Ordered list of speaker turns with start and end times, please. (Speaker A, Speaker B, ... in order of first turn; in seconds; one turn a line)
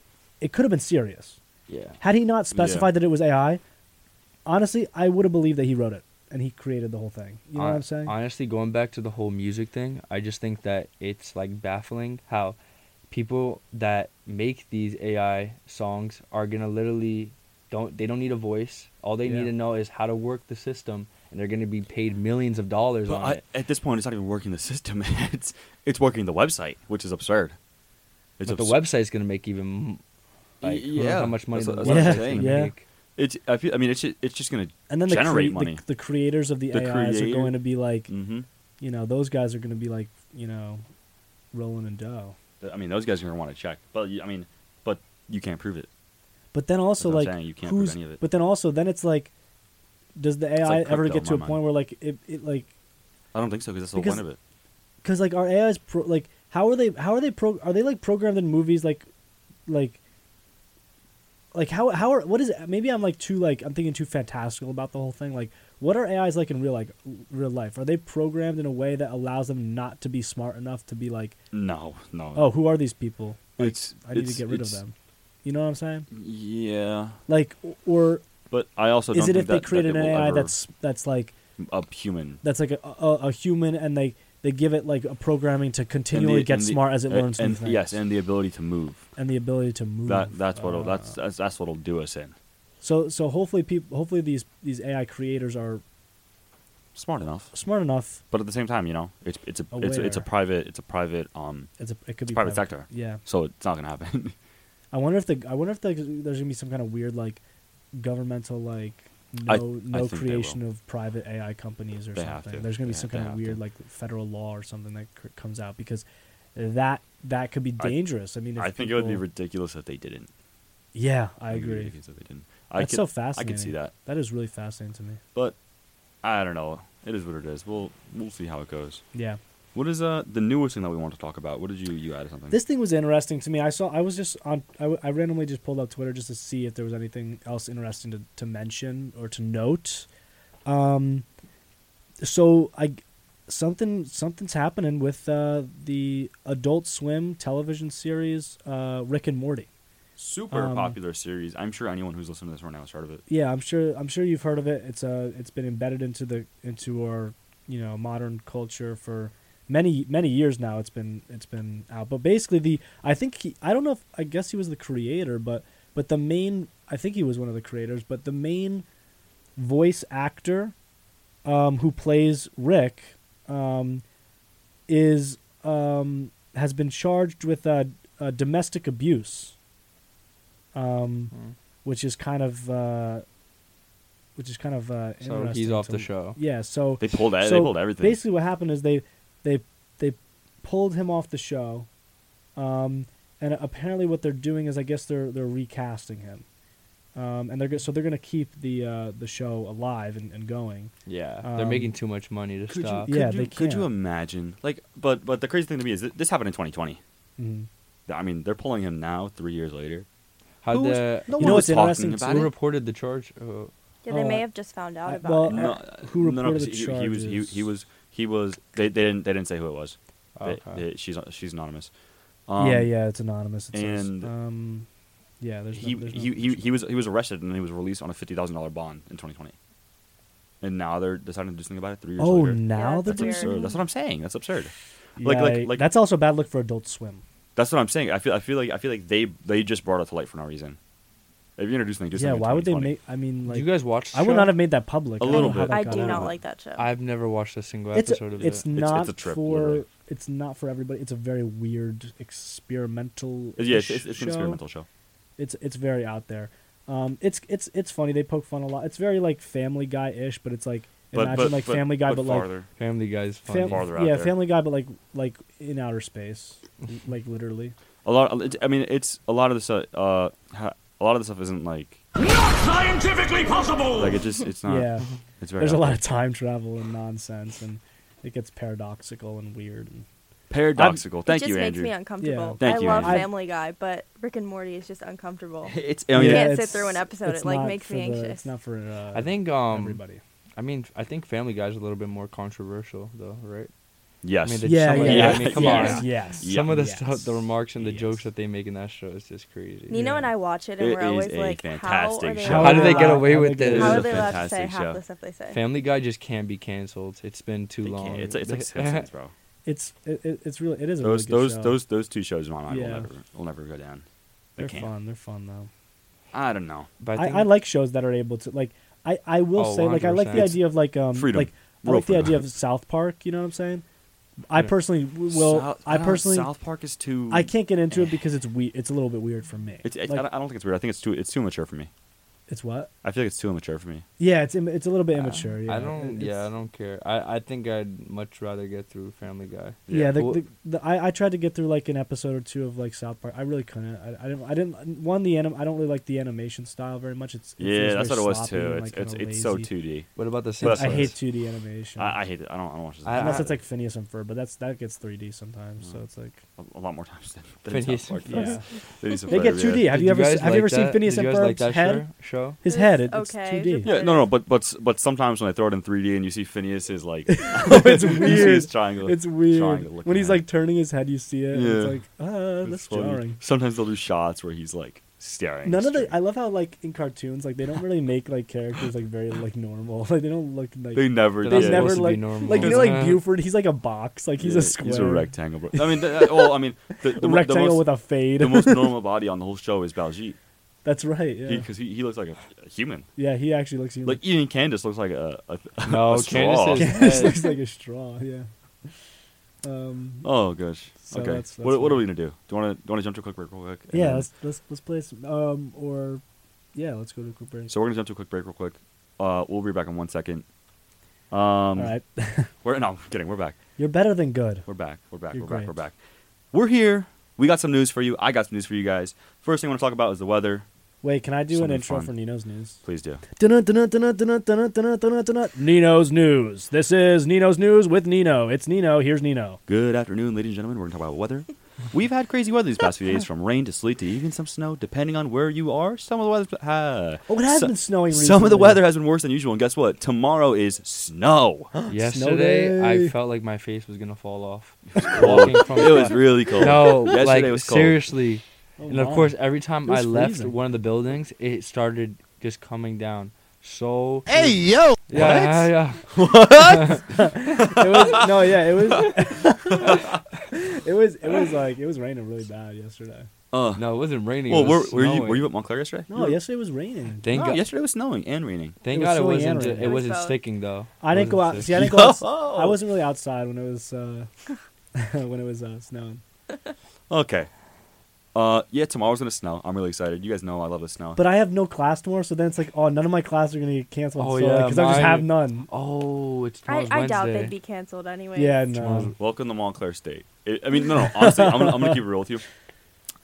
Speaker A: 0.4-1.4
Speaker B: 1.7-2.0
Speaker A: 2.0-3.6
Speaker C: 2.5-2.9
Speaker A: 4.5-8.1
Speaker B: 7.6-12.6
Speaker B: 13.1-23.4
Speaker A: 19.2-19.5
Speaker C: 23.1-27.6
Speaker C: 28.4-28.8
Speaker B: 28.4-30.0
Speaker B: 30.6-32.8
Speaker C: 30.6-32.6
Speaker A: 31.8-32.7
Speaker C: 33.2-35.8
Speaker A: 34.9-38.1
Speaker C: 36.7-37.6
Speaker C: 38.1-38.5
Speaker A: 38.8-40.8
Speaker A: 41.5-42.4
Speaker C: 42.6-45.9
Speaker A: 46.5-49.3
Speaker C: 47.0-48.2
Speaker A: 50.2-52.7
Speaker C: 50.6-51.6
Speaker C: 53.3-54.4
Speaker A: 53.9-54.2
Speaker A: 55.0-59.0
Speaker A: 59.7-60.0
Speaker A: 61.5-71.3
Speaker C: 71.5-72.5
Speaker A: 72.3-76.1
Speaker C: 73.6-74.8
Speaker C: 76.1-77.2
Speaker A: 77.3-78.2
Speaker C: 78.5-80.5
Speaker A: 79.1-81.3
Speaker C: 81.6-82.4
Speaker A: 82.4-88.0
Speaker C: 86.1-89.0
Speaker A: 89.2-91.1
Speaker C: 90.0-92.3
Speaker A: 92.8-95.8
Speaker C: 96.9-97.5
Speaker A: 97.5-98.2
Speaker C: 98.3-101.7
Speaker A: 99.7-100.3
Speaker A: 101.8-103.2
Speaker C: 102.3-104.3
Speaker A: 104.9-107.4
Speaker A: 107.9-116.0
Speaker C: 109.5-110.6
Speaker C: 112.1-113.6
Speaker A: 116.5-119.2
Speaker C: 117.8-120.3
Speaker A: 120.9-121.9
Speaker C: 121.5-123.9
Speaker A: 122.8-125.2
Speaker C: 126.2-129.0
Speaker A: 129.1-129.4
Speaker C: 129.7-132.6
Speaker A: 132.5-140.1
Speaker A: 140.7-141.2
Speaker A: 142.2-149.7
Speaker C: 150.2-153.2
Speaker A: 150.5-151.0
Speaker A: 153.3-168.8
Speaker A: 169.6-170.7
Speaker A: 171.4-174.0
Speaker A: 174.9-179.5
Speaker A: 180.7-181.3
Speaker A: 181.8-183.2
Speaker A: 184.3-191.9
Speaker B: 185.2-186.4
Speaker C: 187.0-188.2
Speaker A: 192.6-196.4
Speaker A: 197.1-201.9
Speaker B: 201.1-203.1
Speaker C: 202.7-207.0
Speaker A: 203.1-203.9
Speaker A: 207.4-207.7
Speaker C: 208.1-210.1
Speaker B: 210.6-213.7
Speaker C: 210.7-212.5
Speaker A: 211.3-212.4
Speaker D: 214.0-215.7
Speaker A: 214.1-214.4
Speaker A: 215.1-217.7
Speaker C: 215.5-221.9
Speaker B: 220.4-220.8
Speaker C: 222.5-222.9
Speaker A: 222.6-224.9
Speaker C: 223.7-224.3
Speaker A: 225.4-226.7
Speaker C: 225.8-229.5
Speaker C: 230.6-235.9
Speaker A: 232.2-233.5
Speaker D: 232.7-233.8
Speaker A: 235.2-237.2
Speaker C: 237.6-240.8
Speaker C: 241.6-242.9
Speaker A: 242.1-246.3
Speaker B: 243.5-244.6
Speaker C: 245.2-246.3
Speaker D: 245.3-246.9
Speaker B: 246.8-248.6
Speaker A: 247.9-254.6
Speaker C: 248.4-249.8
Speaker C: 253.6-254.8
Speaker A: 255.4-262.5
Speaker C: 261.1-262.7
Speaker B: 262.8-263.8
Speaker A: 263.4-267.7
Speaker C: 263.6-264.3
Speaker C: 268.0-272.0
Speaker E: 272.2-274.1
Speaker C: 273.9-276.0
Speaker A: 274.6-280.1
Speaker C: 280.5-281.9
Speaker A: 280.7-281.0
Speaker D: 281.2-288.5
Speaker A: 282.2-283.3
Speaker C: 282.6-283.3
Speaker C: 285.6-286.6
Speaker A: 286.1-290.2
Speaker B: 289.1-290.0
Speaker B: 290.6-293.7
Speaker C: 294.2-298.2
Speaker B: 294.4-299.9
Speaker A: 294.6-297.0
Speaker D: 295.6-296.0
Speaker D: 299.9-305.6
Speaker A: 299.9-300.3
Speaker C: 300.8-305.0
Speaker A: 302.4-304.4
Speaker B: 302.6-304.3
Speaker B: 305.5-309.1
Speaker C: 307.8-309.3
Speaker A: 309.6-311.8
Speaker C: 311.0-314.0
Speaker A: 312.7-313.1
Speaker C: 314.6-314.9
Speaker A: 314.6-315.7
Speaker C: 316.3-316.9
Speaker B: 317.0-317.5
Speaker A: 317.1-323.8
Speaker B: 319.6-320.6
Speaker C: 320.3-320.6
Speaker C: 321.1-322.4
Speaker A: 324.5-326.5
Speaker C: 325.3-328.1
Speaker A: 327.3-330.2
Speaker C: 329.8-331.9
Speaker A: 332.5-332.9
Speaker C: 333.0-334.0
Speaker A: 334.2-336.5
Speaker B: 335.1-340.4
Speaker C: 339.9-340.2
Speaker A: 339.9-349.7
Speaker C: 347.6-350.1
Speaker B: 350.1-351.1
Speaker C: 350.6-351.1
Speaker A: 350.7-352.1
Speaker C: 351.9-353.5
Speaker B: 353.0-353.5
Speaker A: 353.1-356.4
Speaker C: 356.6-359.9
Speaker B: 357.7-358.6
Speaker A: 358.3-358.6
Speaker A: 359.3-362.1
Speaker B: 359.8-362.6
Speaker A: 362.6-364.0
Speaker D: 362.6-364.3
Speaker C: 363.8-370.4
Speaker A: 367.3-373.4
Speaker C: 371.5-372.0
Speaker C: 372.6-376.2
Speaker A: 375.6-389.0
Speaker C: 380.9-382.9
Speaker B: 381.4-383.2
Speaker C: 384.4-387.9
Speaker C: 388.4-390.4
Speaker A: 390.8-391.7
Speaker C: 391.4-393.1
Speaker A: 393.2-394.2
Speaker C: 394.0-397.2
Speaker B: 395.8-397.4
Speaker A: 396.8-398.5
Speaker A: 399.6-400.2
Speaker C: 400.2-404.3
Speaker A: 401.1-402.0
Speaker A: 403.9-406.2
Speaker A: 406.7-407.7
Speaker C: 407.7-410.4
Speaker C: 411.3-411.9
Speaker A: 411.8-412.5
Speaker C: 412.6-413.6
Speaker A: 413.8-414.6
Speaker C: 414.7-415.9
Speaker A: 415.3-415.7
Speaker C: 416.5-420.6
Speaker A: 421.0-422.8
Speaker C: 421.5-422.1
Speaker C: 422.8-423.2
Speaker A: 423.3-429.6
Speaker C: 429.7-441.9
Speaker A: 437.3-438.9
Speaker A: 441.8-443.1
Speaker B: 441.9-454.5
Speaker C: 444.9-448.0
Speaker A: 448.8-450.5
Speaker E: 454.4-455.0
Speaker B: 455.1-456.1
Speaker C: 455.1-460.2
Speaker B: 456.7-457.0
Speaker A: 456.9-463.3
Speaker C: 463.5-463.8
Speaker B: 463.8-465.5
Speaker C: 464.4-466.4
Speaker A: 466.1-467.3
Speaker B: 467.2-467.6
Speaker C: 467.3-468.8
Speaker B: 468.8-472.0
Speaker A: 468.9-470.0
Speaker D: 469.6-470.4
Speaker A: 471.0-474.3
Speaker C: 471.6-472.8
Speaker A: 474.9-476.2
Speaker C: 477.1-477.5
Speaker C: 478.3-481.2
Speaker A: 481.1-485.7
Speaker B: 484.2-487.5
Speaker D: 486.7-488.6
Speaker A: 488.3-489.1
Speaker B: 488.7-489.1
Speaker C: 489.2-492.4
Speaker A: 491.1-492.0